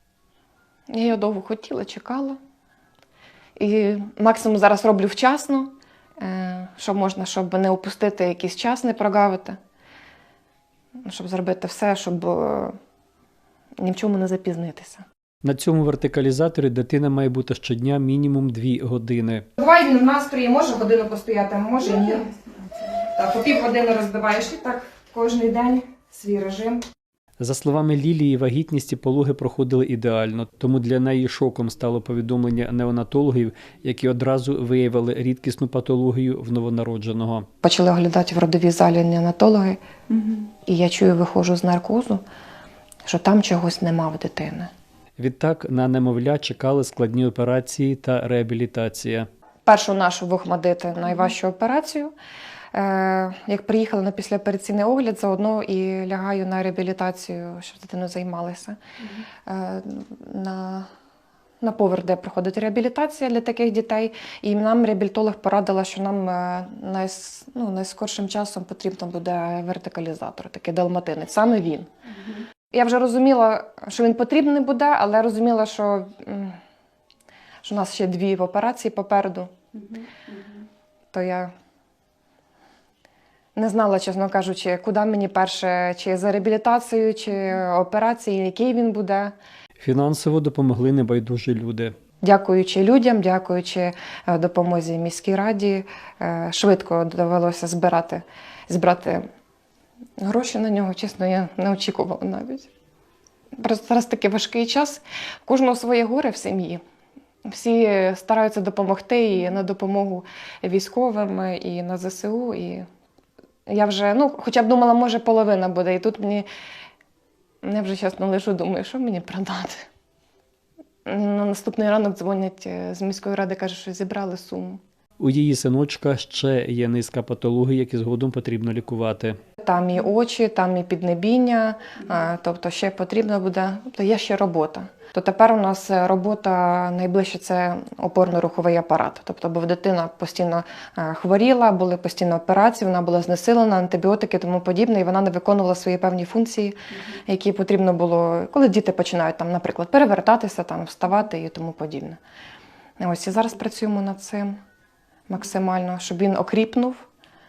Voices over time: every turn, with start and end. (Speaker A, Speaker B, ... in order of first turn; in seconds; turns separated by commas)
Speaker A: 0.9-2.4, Speaker A: 3.6-9.6, Speaker A: 11.0-12.8, Speaker A: 13.8-15.0, Speaker B: 15.4-19.4, Speaker A: 19.6-22.3, Speaker A: 23.0-26.8, Speaker B: 27.4-37.5, Speaker A: 37.6-39.8, Speaker A: 40.3-42.2, Speaker A: 43.0-44.7, Speaker B: 45.2-49.3, Speaker A: 49.7-52.1, Speaker A: 52.7-58.8, Speaker A: 59.5-60.9, Speaker A: 61.6-71.9, Speaker A: 72.7-76.6, Speaker A: 77.6-79.6, Speaker A: 81.1-81.5, Speaker A: 83.6-89.3, Speaker B: 89.8-91.9, Speaker A: 92.2-99.2, Speaker A: 100.2-102.7, Speaker A: 103.6-106.8, Speaker A: 107.5-112.8, Speaker A: 113.7-116.5, Speaker A: 117.6-119.9, Speaker A: 121.1-124.8, Speaker B: 125.2-129.4, Speaker A: 129.6-152.2, Speaker A: 153.0-154.6, Speaker A: 155.3-157.1